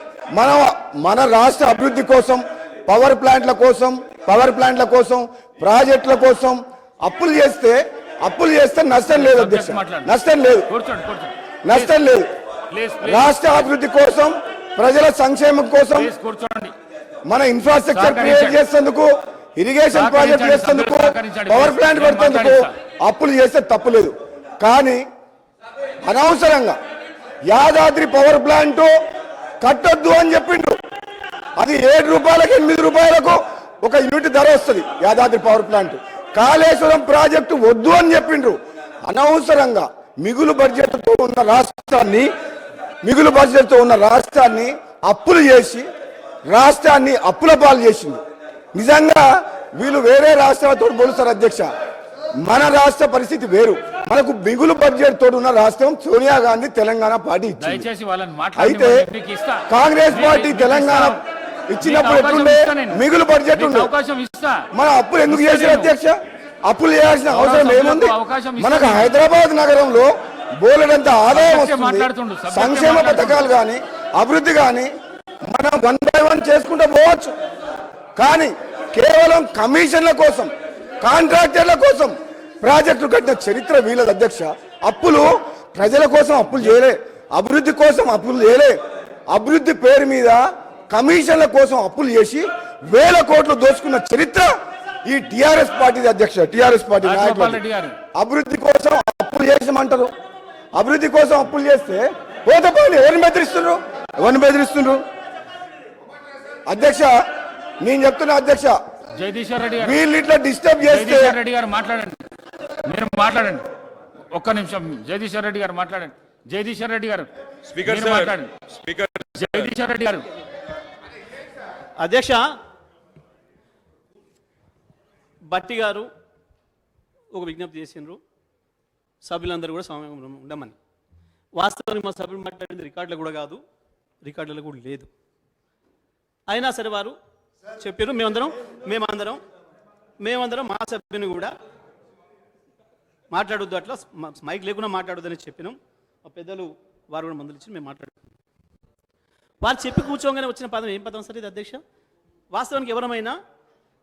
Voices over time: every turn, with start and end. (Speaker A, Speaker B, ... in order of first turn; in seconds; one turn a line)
Speaker A: 0.3-10.7
Speaker B: 9.1-10.1
Speaker B: 10.7-11.9
Speaker A: 11.6-12.3
Speaker B: 12.7-13.7
Speaker A: 13.0-16.1
Speaker B: 15.9-16.7
Speaker A: 17.3-25.0
Speaker B: 17.9-18.6
Speaker B: 19.9-22.7
Speaker A: 26.0-26.8
Speaker A: 27.5-28.9
Speaker A: 29.6-30.8
Speaker A: 31.6-42.3
Speaker A: 43.0-45.9
Speaker A: 46.5-48.2
Speaker A: 48.7-51.7
Speaker A: 52.4-57.9
Speaker B: 57.6-61.2
Speaker A: 58.5-59.0
Speaker A: 59.7-63.9
Speaker B: 61.8-64.7
Speaker A: 64.7-74.9
Speaker B: 65.3-65.9
Speaker B: 67.3-69.2
Speaker B: 71.3-73.4
Speaker A: 75.5-77.3
Speaker A: 78.2-80.5
Speaker A: 81.0-88.8
Speaker A: 89.3-94.5
Speaker A: 95.0-97.6
Speaker B: 97.0-98.0
Speaker A: 98.1-100.1
Speaker A: 100.8-105.0
Speaker A: 106.7-107.1
Speaker A: 107.8-108.8
Speaker B: 109.1-110.0
Speaker A: 109.8-111.4
Speaker B: 110.8-112.2
Speaker B: 112.8-113.7
Speaker B: 114.3-120.3
Speaker C: 122.0-122.4
Speaker C: 125.5-126.1
Speaker C: 127.3-128.2
Speaker C: 129.2-130.8
Speaker C: 131.6-133.6
Speaker C: 134.2-135.1
Speaker C: 136.5-137.1
Speaker C: 137.8-139.4
Speaker C: 140.2-141.5
Speaker C: 143.3-148.3
Speaker C: 149.6-151.8
Speaker C: 152.5-153.4